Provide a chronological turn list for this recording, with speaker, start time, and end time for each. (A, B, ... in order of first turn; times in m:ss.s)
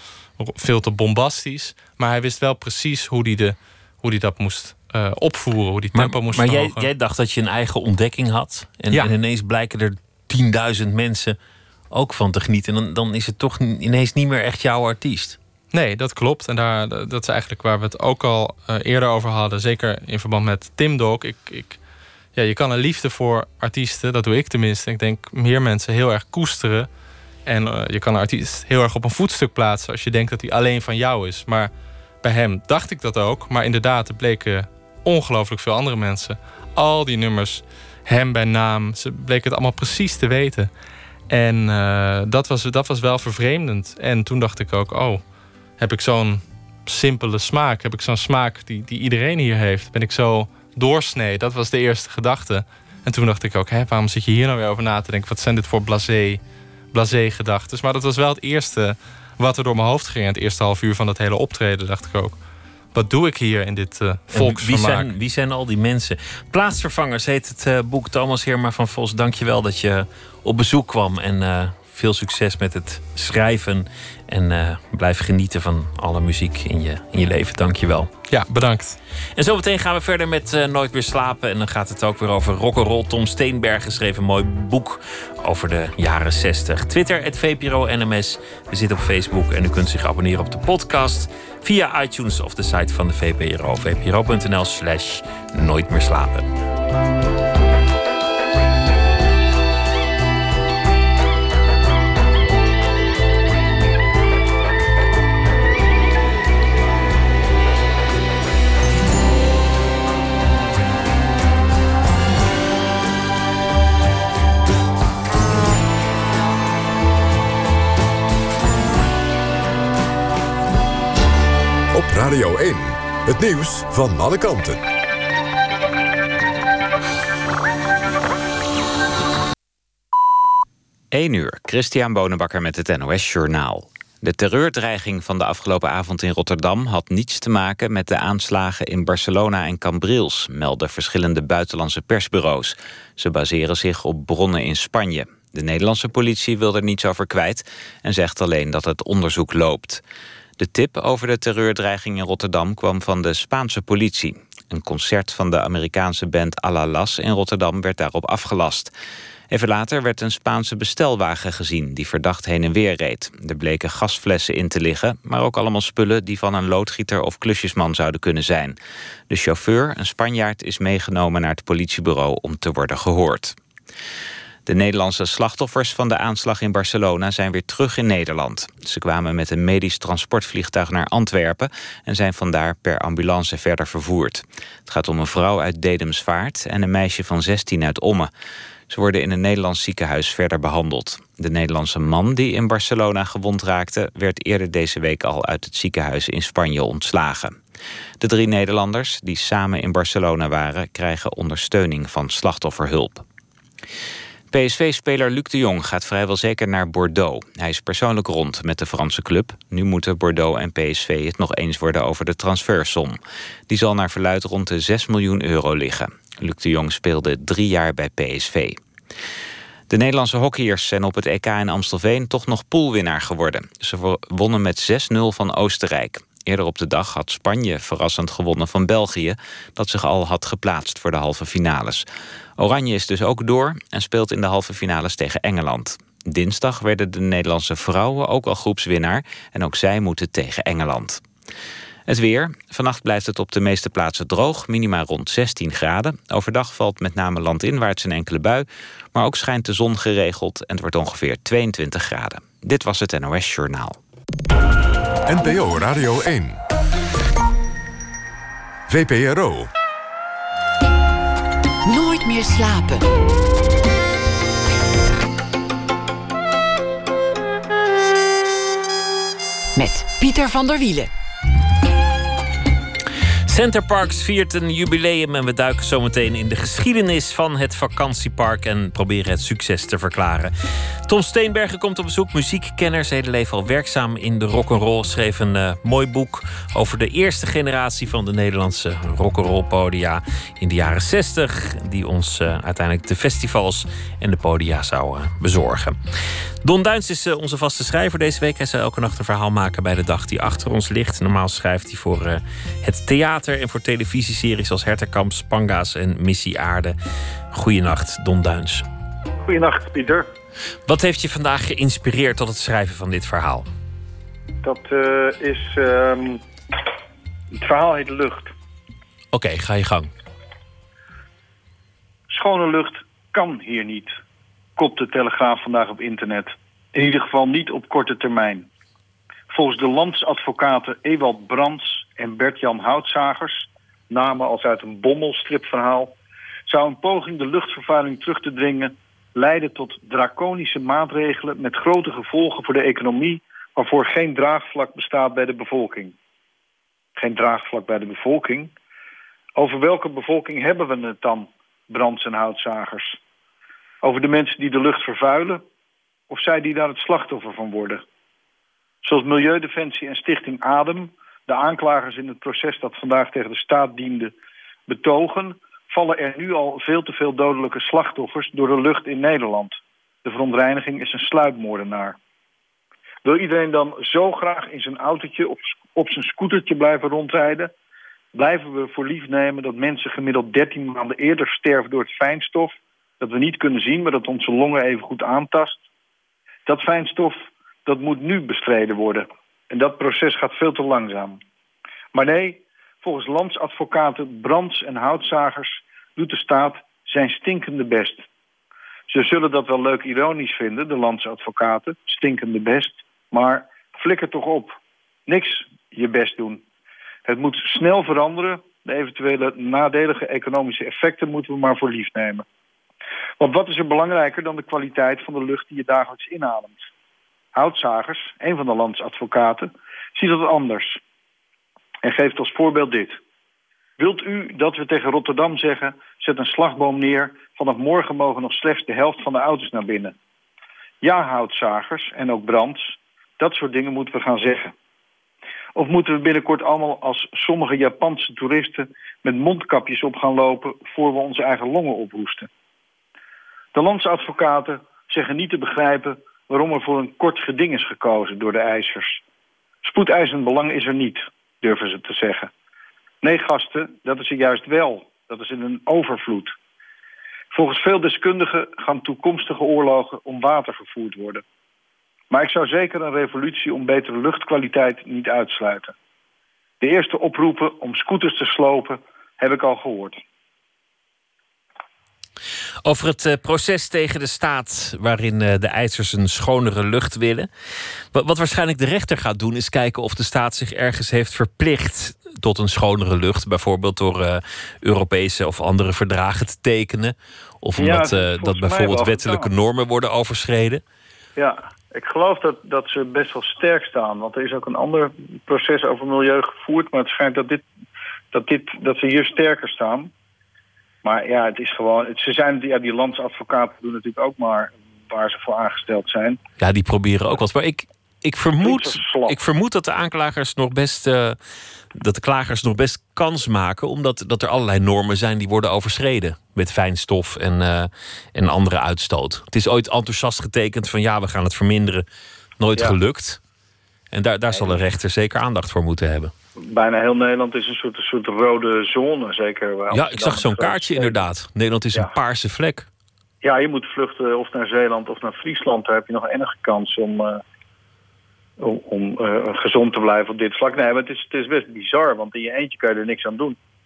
0:00.4-0:06.9 A
0:05.9-0:11.4 B
0:11.9-0:15.4 B
0:15.7-0:21.8 A
0:22.3-0:26.9 A
0:27.4-0:31.7 A
0:32.2-0:40.7 A
0:41.3-0:45.2 A
0:45.8-0:56.4 A
0:56.9-1:02.4 A
1:02.9-1:05.1 A
1:04.3-1:18.1 B
1:18.3-1:19.0 A
1:19.4-1:36.5 B
2:01.9-2:04.8 C
2:11.1-2:30.0 D
2:30.6-2:38.9 D
2:39.5-2:48.8 D
2:49.3-2:53.6 D
2:54.6-3:08.3 D
3:08.9-3:17.6 D
3:18.2-3:23.2 D
3:24.5-3:33.2 D
3:33.7-3:38.8 D
3:39.9-3:52.0 D
3:52.6-4:01.2 D
4:02.1-4:14.0 D
4:15.2-4:16.6 C
4:18.9-4:19.7 C
4:21.8-4:23.1 E
4:29.7-4:31.1 E
4:33.5-4:40.5 B
4:41.0-4:56.0 B
4:56.6-5:07.0 B
5:07.5-5:08.8 B
5:09.4-5:10.3 F
5:10.8-5:13.7 B
5:14.6-5:16.4 F
5:17.5-5:18.5 F
5:19.3-5:20.1 B
5:22.3-5:24.1 F
5:24.8-5:28.7 F
5:29.5-5:36.1 F
5:36.7-5:46.1 F
5:47.2-5:48.7 F
5:49.6-5:53.2 F
5:54.0-5:55.6 F
5:56.3-5:58.0 F
5:59.0-6:04.3 F
6:04.9-6:12.2 F
6:13.2-6:17.7 F
6:18.3-6:25.8 F
6:26.6-6:31.4 F
6:32.1-6:38.2 F
6:39.1-6:44.8 F
6:45.3-6:46.6 F
6:47.2-6:52.4 F
6:53.4-6:56.8 F
6:57.5-7:01.0 F
7:02.0-7:03.2 F
7:04.0-7:10.1 F
7:11.0-7:14.7 F
7:15.8-7:22.5 F
7:23.7-7:29.2 F
7:29.8-7:32.5 F
7:33.2-7:36.5 F
7:37.5-7:41.4 F
7:42.3-7:45.9 F
7:46.8-7:50.2 F
7:52.8-7:57.5 B
7:58.1-8:10.8 B
8:07.8-8:09.5 F
8:11.4-8:17.6 F
8:18.3-8:20.1 F
8:21.0-8:26.4 F
8:26.6-8:31.4 B
8:28.6-8:29.4 F
8:31.9-8:42.0 B
8:42.6-8:43.4 B
8:44.1-8:46.3 B
8:46.7-8:51.2 F
8:49.9-8:52.9 B
8:53.4-8:57.4 F
8:58.6-9:03.6 F